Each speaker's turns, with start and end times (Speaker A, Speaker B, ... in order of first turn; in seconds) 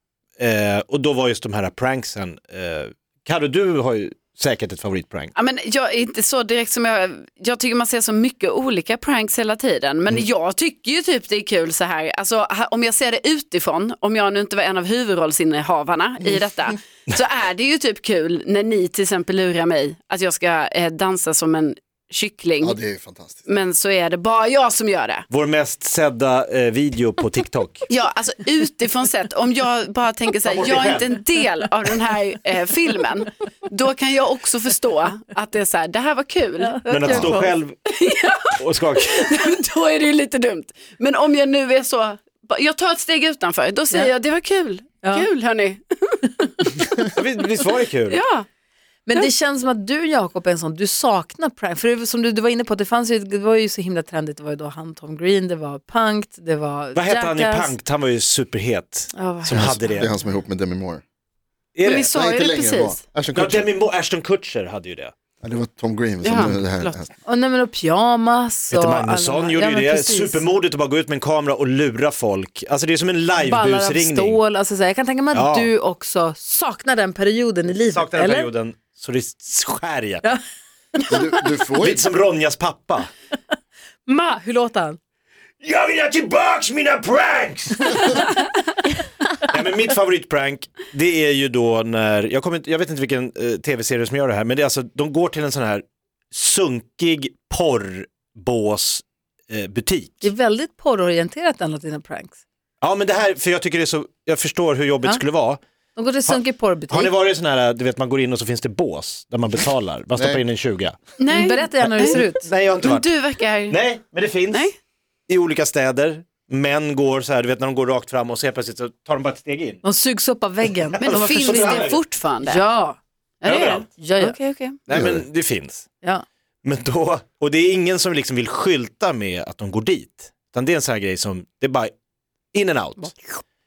Speaker A: 0.4-5.3, 25.3-27.9, 30.4-31.2, 36.9-37.8, 38.5-39.4, 47.1-48.2, 57.0-60.1, 61.8-62.1, 63.3-65.1, 68.7-74.4, 75.3-75.7, 77.9-80.2, 81.8-83.1, 85.6-88.3, 89.5-100.3, 102.8-105.6, 106.3-111.0, 111.8-113.1, 113.7-114.7, 115.3-119.8, 121.0-122.0, 123.5-123.9, 124.9-125.9, 126.6-131.9, 132.5-133.2
Speaker B: 5.3-22.8, 23.5-25.3, 27.9-46.8, 48.1-48.5, 61.8-63.0, 66.2-67.0, 111.2-112.2, 112.8-113.8, 121.0-122.6, 123.4-124.6
Speaker C: 22.6-23.5, 37.1-37.4, 59.5-61.0, 61.9-63.7, 65.4-67.1, 81.1-82.0, 110.2-110.4, 124.9-125.2
Speaker D: 49.1-57.8, 59.1-60.3, 67.2-70.4, 73.4-78.5, 84.1-85.0, 100.2-102.4, 106.0-107.1, 111.3-112.5, 119.8-123.0, 124.0-124.7